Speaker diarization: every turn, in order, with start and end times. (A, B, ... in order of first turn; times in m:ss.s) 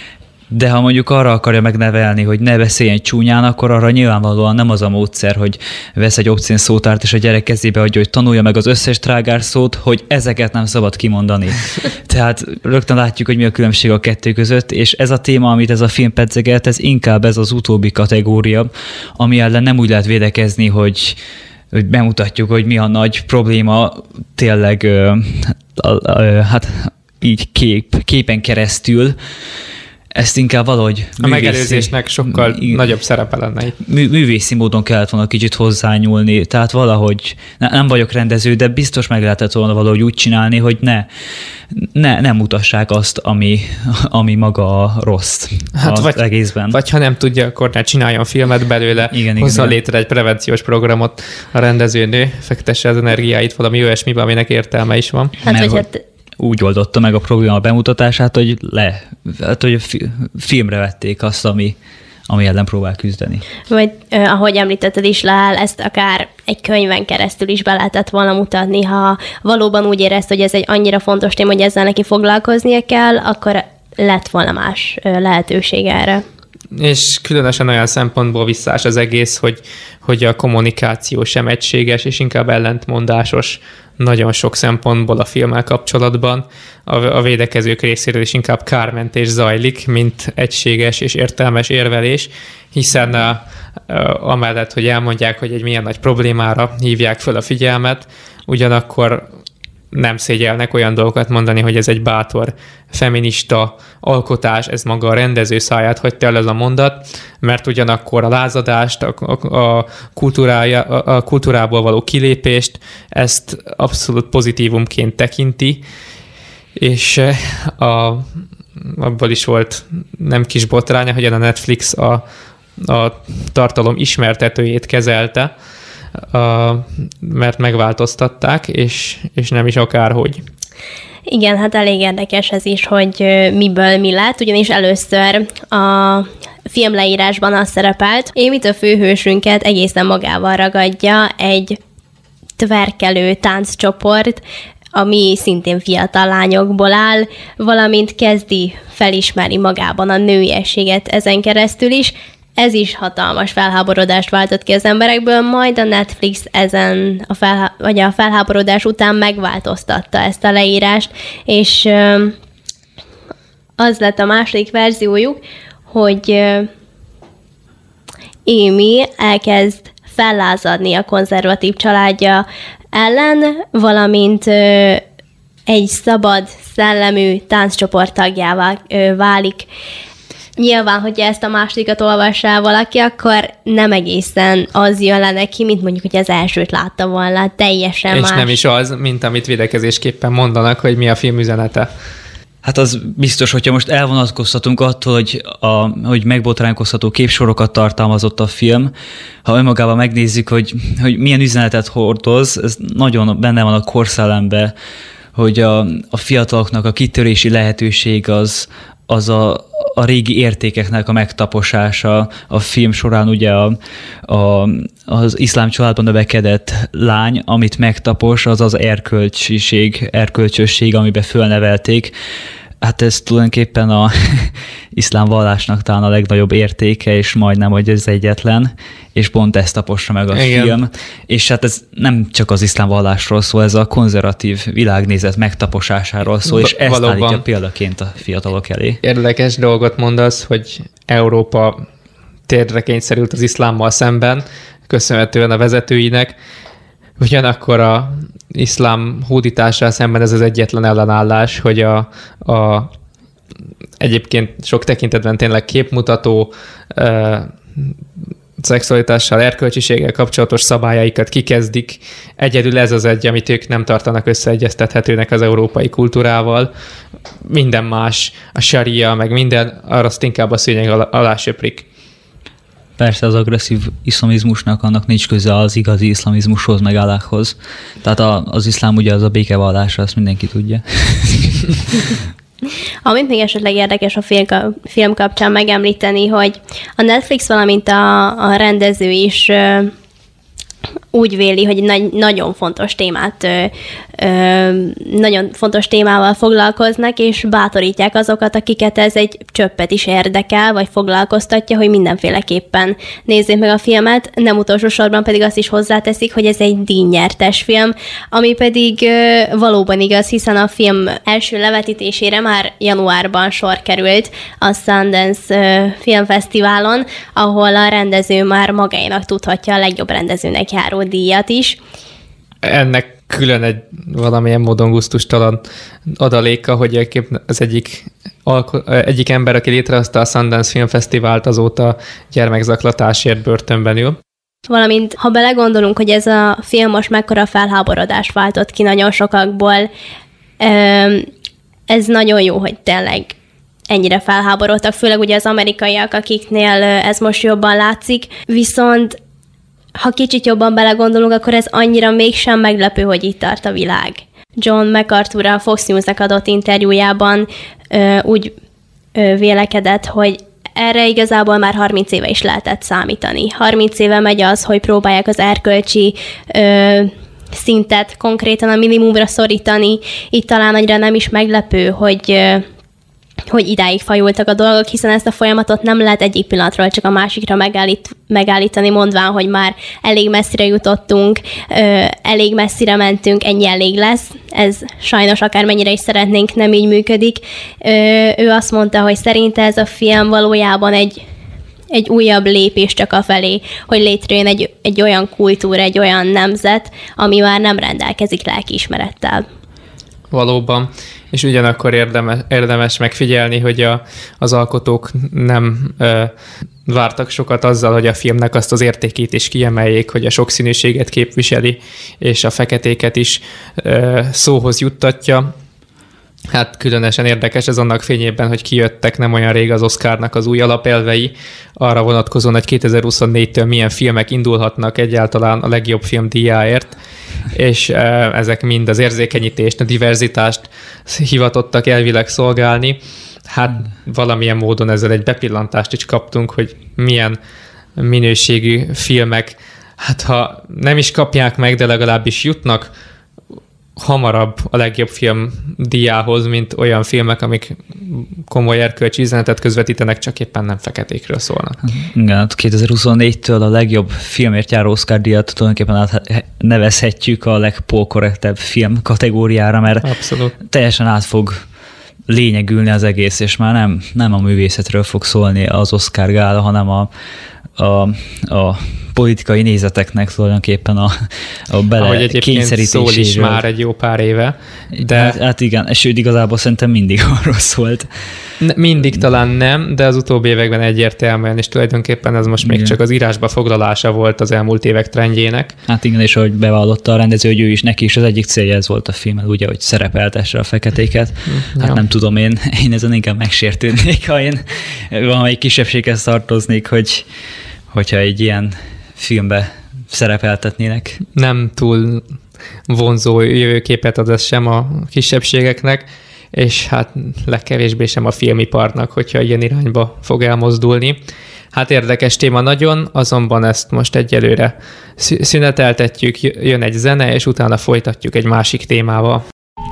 0:00.5-0:21.2 A
0:21.7-0:29.2 A
0:30.1-0:32.8 A
0:31.2-0:33.8 B
0:33.8-0:41.1 A
0:41.7-0:46.8 A
0:45.8-0:55.4 B
0:49.1-0:49.8 A
0:55.4-0:56.0 C
0:55.5-0:55.9 A
0:56.4-1:01.8 A
1:02.3-1:03.4 A
1:03.7-1:16.2 C
1:16.8-1:39.3 B
1:39.9-1:55.8 B
1:56.8-1:58.2 B
1:58.8-2:02.2 B
2:02.8-2:05.5 B
2:06.3-2:10.4 B
2:11.3-2:21.8 C
2:22.6-2:24.4 C
2:25.0-2:42.3 C
2:43.8-2:46.7 C
2:48.5-2:55.0 C
2:55.7-2:59.7 C
3:00.6-3:08.6 C
3:08.1-3:11.9 B
3:12.6-3:18.9 A
3:19.4-3:24.7 A
3:25.4-3:42.1 A
3:42.8-3:59.0 A
3:50.3-3:50.8 B
3:56.4-3:57.4 B
3:59.0-4:01.8 B
4:02.5-4:06.4 B
4:07.2-4:12.9 B
4:14.0-4:17.9 B
4:18.6-4:26.7 B
4:27.5-4:31.9 B
4:33.0-4:42.2 A
4:43.0-4:49.9 C
4:51.1-5:21.8 C
5:22.6-5:25.6 B
5:26.2-5:34.2 B
5:34.7-5:39.9 C
5:40.6-5:41.3 C
5:41.9-5:43.4 C
5:43.9-5:49.2 C
5:50.0-5:58.5 C
5:59.2-6:12.6 C
6:13.5-6:31.2 C
6:31.9-6:39.4 C
6:40.3-6:46.3 B
6:46.9-6:55.5 B
6:56.5-7:07.0 B
7:07.5-7:17.4 B
7:18.0-7:22.9 B
7:24.0-7:31.8 B
7:31.8-7:40.1 A
7:40.0-7:40.6 B
7:40.6-7:41.6 A
7:42.3-7:47.1 A
7:47.8-7:51.1 A
7:51.7-7:53.6 A
7:52.0-7:55.4 B
7:55.0-7:58.1 A
7:58.6-8:05.8 B
8:02.6-8:03.0 A
8:05.9-8:17.3 A
8:11.5-8:12.0 B
8:17.9-8:21.2 A
8:21.4-8:22.2 B
8:22.9-8:31.2 B
8:31.7-8:39.4 B